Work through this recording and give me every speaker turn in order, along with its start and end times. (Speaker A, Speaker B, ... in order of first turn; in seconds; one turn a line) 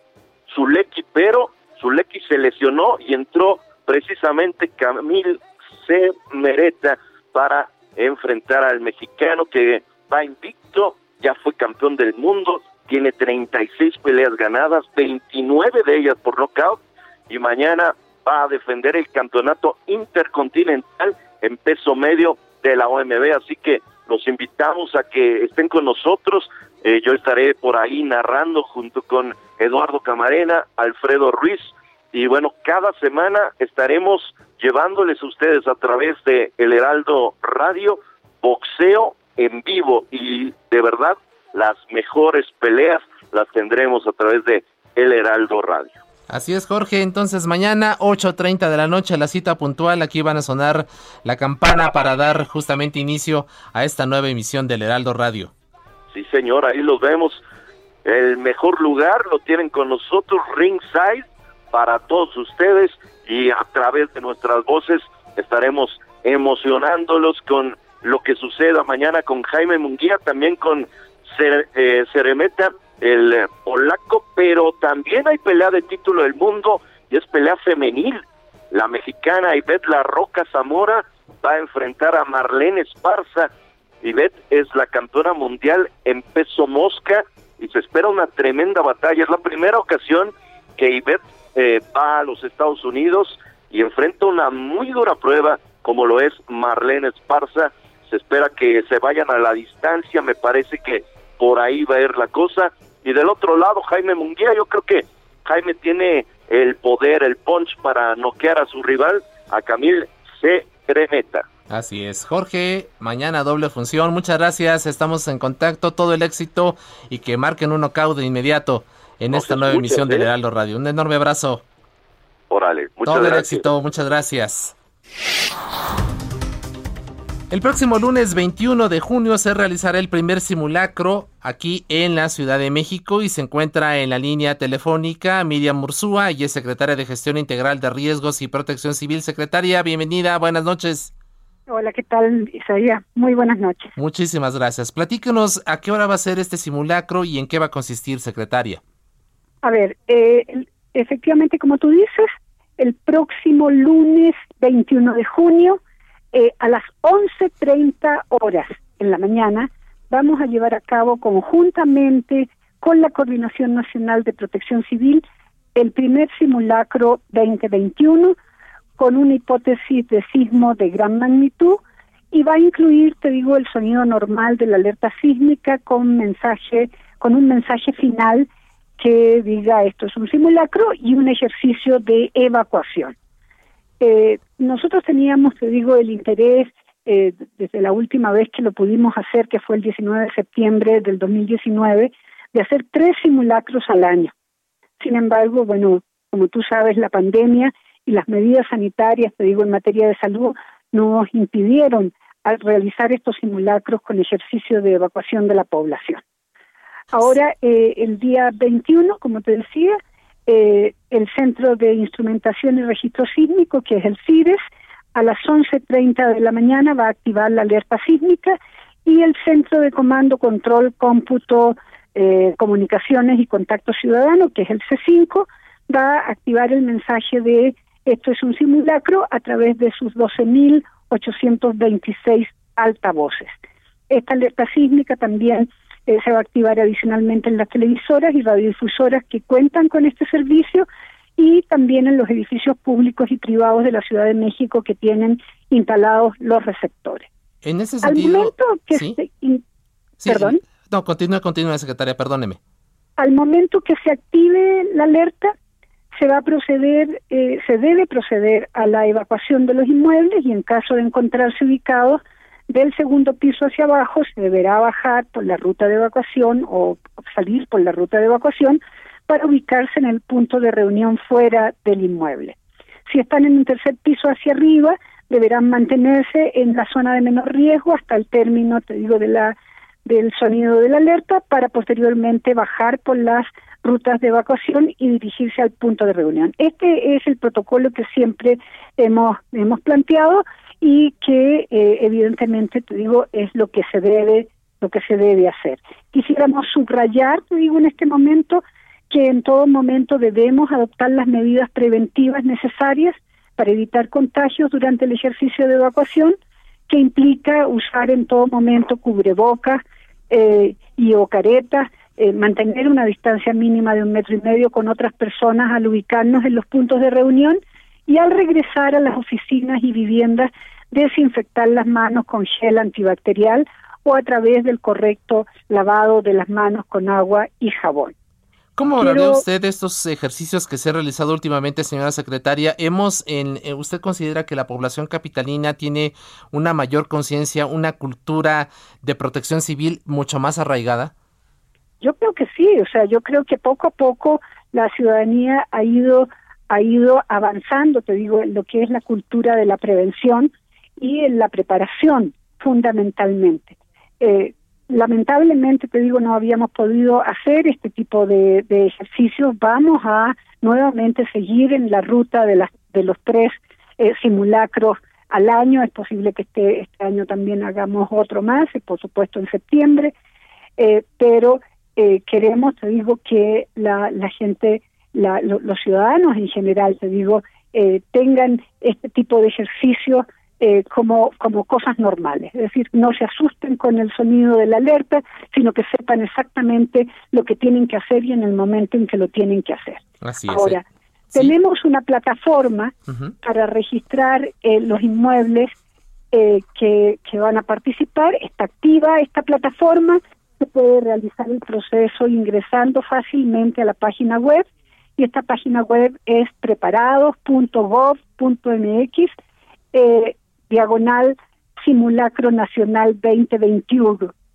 Speaker A: 0.5-46.0
Speaker B: 46.3-55.5
Speaker A: 56.1-57.4
Speaker A: 58.0-83.5
Speaker A: 84.0-111.5
Speaker B: 111.7-121.6
Speaker A: 119.3-120.3
Speaker A: 122.5-123.7
Speaker B: 123.0-124.7
Speaker B: 127.5-141.1
Speaker C: 141.7-143.9
Speaker B: 144.0-148.8
Speaker C: 149.6-155.8
Speaker C: 156.3-165.2
Speaker C: 165.8-168.3
Speaker C: 169.0-183.1
Speaker C: 184.0-194.3
Speaker C: 195.0-206.2
Speaker C: 207.1-240.9
Speaker C: 241.4-247.3
Speaker B: 247.6-249.2
Speaker C: 248.0-249.6
Speaker B: 250.2-252.6
Speaker C: 250.3-250.6
Speaker C: 253.2-255.5
Speaker C: 256.2-272.6
Speaker C: 273.1-306.4
Speaker C: 306.9-328.1
Speaker B: 328.8-341.1
Speaker C: 329.0-329.4
Speaker C: 342.0-370.1
Speaker C: 370.8-395.7
Speaker B: 390.2-390.8
Speaker B: 393.1-393.3
Speaker C: 396.3-404.7
Speaker C: 405.2-409.3
Speaker C: 409.9-414.3